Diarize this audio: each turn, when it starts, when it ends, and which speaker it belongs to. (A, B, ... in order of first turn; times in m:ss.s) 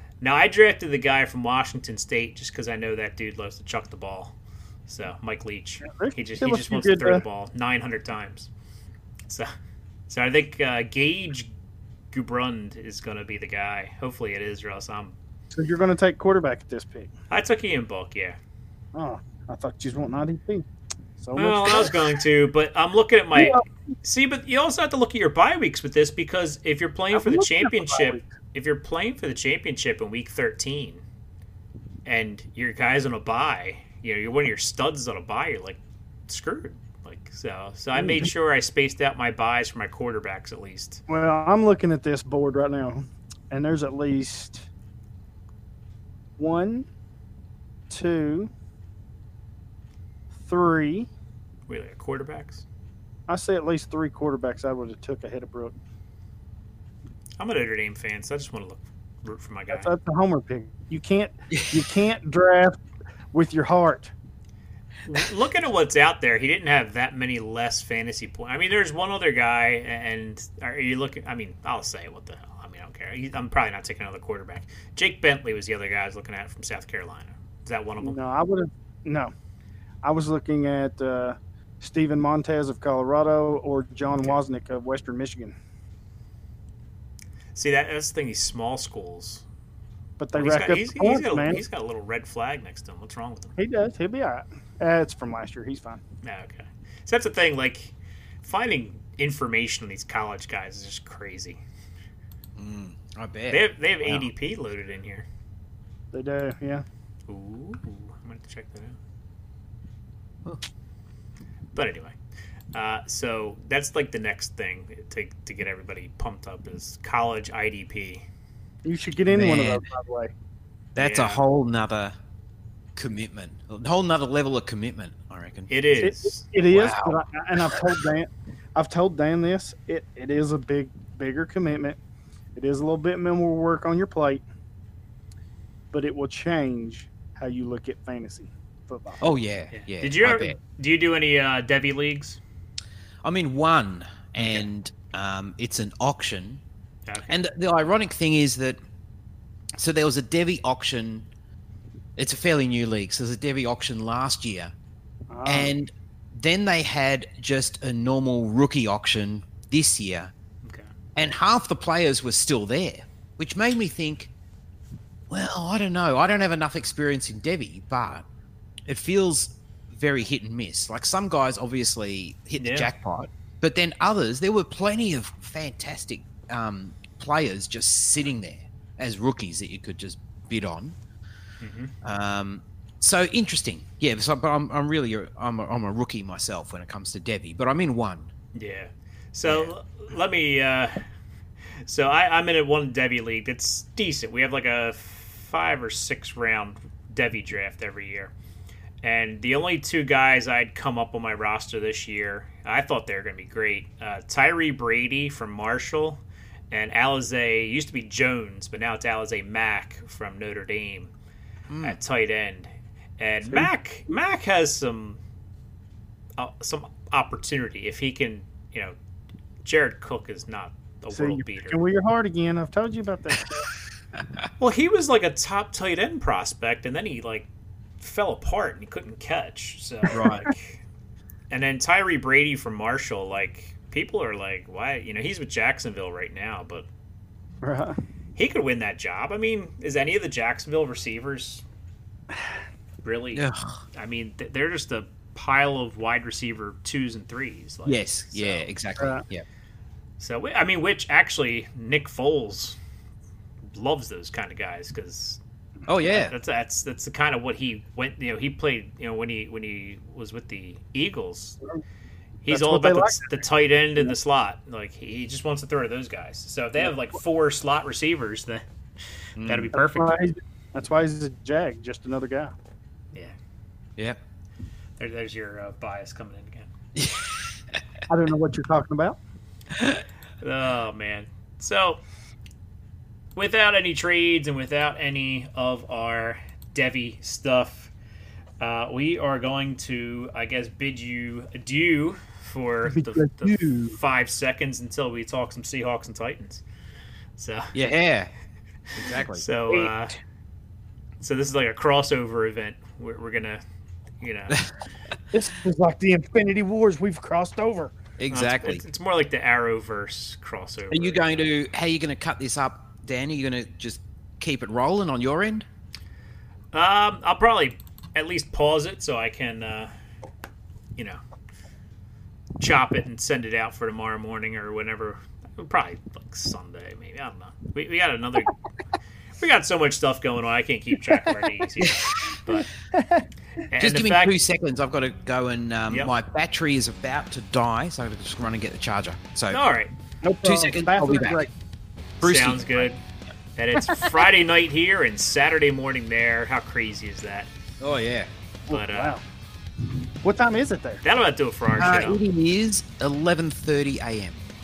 0:00.2-0:04.4 A
0:04.9-0:08.5 A
0:05.9-0:07.2 B
0:10.1-0:11.6 A
0:12.1-0:15.2 A
0:15.6-0:17.1 B
0:17.3-0:18.4 A
0:19.0-0:20.7 B
0:21.2-0:22.0 B
0:21.4-0:31.0 A
0:23.4-0:23.6 B
0:27.1-0:28.3 B
0:32.0-0:41.0 A
0:38.0-0:38.3 B
0:41.1-0:44.7 B
0:46.4-0:46.9 B
0:47.9-0:48.5 B
0:50.4-0:51.1 B
0:51.7-0:52.6 A
0:53.3-0:55.8 B
0:57.4-0:59.9 A
0:59.7-1:02.8 B
1:01.5-1:01.9 C
1:03.3-1:04.1 B
1:05.1-1:18.2 A
1:18.0-1:19.3 B
1:20.0-1:25.6 B
1:27.6-1:29.4 A
1:30.2-1:31.6 B
1:30.3-1:33.5 A
1:33.6-1:36.0 B
1:36.2-1:41.6 A
1:42.6-1:44.3 C
1:43.5-1:45.3 A
1:46.1-1:46.8 B
1:47.3-1:49.0 A
1:51.8-1:52.2 A
1:52.7-1:58.2 A
1:58.8-2:00.3 B
1:59.3-1:59.9 C
2:01.0-2:02.2 C
2:01.0-2:01.4 A
2:03.0-2:06.0 C
2:05.7-2:06.5 A
2:06.0-2:12.0 B
2:06.7-2:07.9 C
2:12.6-2:14.4 B
2:15.9-2:19.2 B
2:19.2-2:20.6 C
2:19.7-2:22.4 A
2:23.2-2:26.6 C
2:24.4-2:24.7 A
2:27.1-2:27.4 A
2:27.3-2:28.8 C
2:29.8-2:31.3 C
2:32.2-2:34.8 C
2:35.3-2:35.7 B
2:35.5-2:40.3 C
2:40.6-2:40.9 A
2:41.2-2:44.3 C
2:45.3-2:48.2 C
2:48.9-3:01.0 C
2:52.6-2:52.9 A
3:01.6-3:01.9 A
3:02.0-3:08.3 C
3:08.5-3:11.1 A
3:09.4-3:09.7 C
3:11.9-3:18.3 A
3:19.0-3:31.1 A
3:31.7-3:32.0 C
3:31.8-3:35.2 A
3:36.4-3:39.0 A
3:39.6-3:41.8 A
3:41.1-3:43.7 B
3:44.2-3:44.5 C
3:44.6-3:47.5 A
3:48.0-3:50.8 A
3:50.1-3:50.5 C
3:51.5-3:56.9 A
3:57.6-3:58.0 B
3:58.4-4:01.6 A
4:03.0-4:08.7 A
4:03.4-4:03.8 C
4:07.8-4:09.4 C
4:09.0-4:09.2 B
4:10.2-4:12.8 A
4:13.7-4:15.4 A
4:15.9-4:16.3 C
4:16.0-4:21.6 A
4:22.4-4:28.6 A
4:22.5-4:23.4 B
4:29.4-4:29.7 C
4:29.4-4:30.2 A
4:29.8-4:32.5 B
4:35.0-4:36.7 A
4:37.0-4:37.8 C
4:38.1-4:39.2 B
4:39.7-4:40.0 C
4:40.4-4:42.0 A
4:43.4-4:47.9 A
4:48.6-4:56.6 A
4:53.0-4:54.0 B
4:57.4-4:57.8 A
4:57.7-4:58.3 C
4:58.9-5:00.0 C
4:59.3-5:00.2 A
5:01.2-5:03.6 A
5:04.2-5:04.7 A
5:05.3-5:08.0 B
5:08.2-5:08.8 C
5:08.3-5:11.5 A
5:10.9-5:15.7 C
5:16.7-5:19.9 A
5:22.6-5:28.6 A
5:29.4-5:32.7 A
5:31.8-5:32.4 C
5:32.9-5:33.3 B
5:33.7-5:34.3 A
5:33.8-5:39.6 C
5:39.5-5:39.9 A
5:40.2-5:41.5 B
5:40.4-5:41.5 C
5:42.2-5:42.9 C
5:42.2-5:43.0 A
5:43.6-5:47.5 A
5:47.8-5:48.3 C
5:48.7-5:49.2 A
5:48.7-5:49.2 B
5:50.2-5:51.0 B
5:51.0-5:52.2 A
5:51.8-5:54.4 C